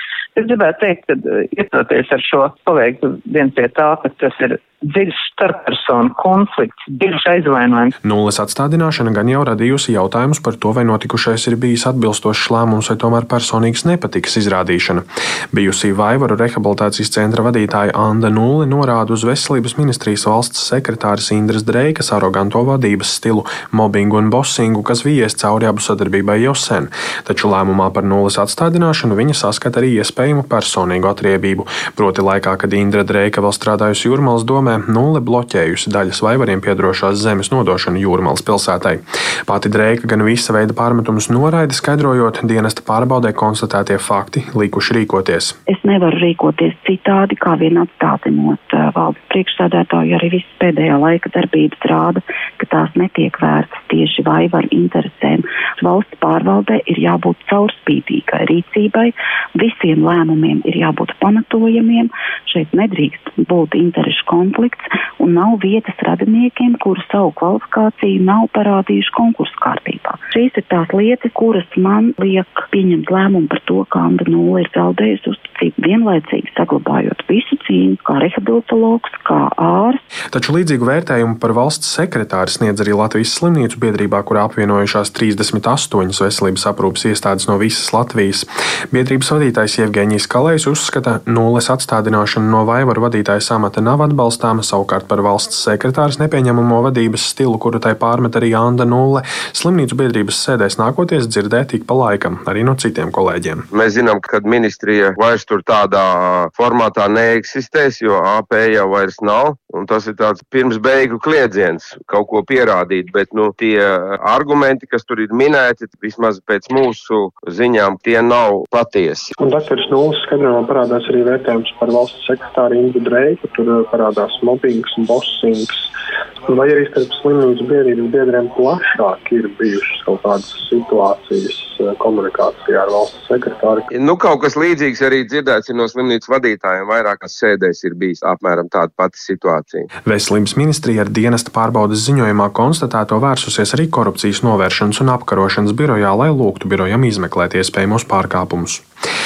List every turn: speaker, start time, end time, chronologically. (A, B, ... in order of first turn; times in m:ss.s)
0:00.3-0:07.9 A
0:08.0-0:45.6 B
0:45.7-1:20.0 C
1:20.3-1:43.6 B
1:43.7-1:59.3 D
1:59.4-2:05.6 E
2:06.5-2:13.6 E
2:13.9-2:19.9 D
2:20.0-2:28.8 B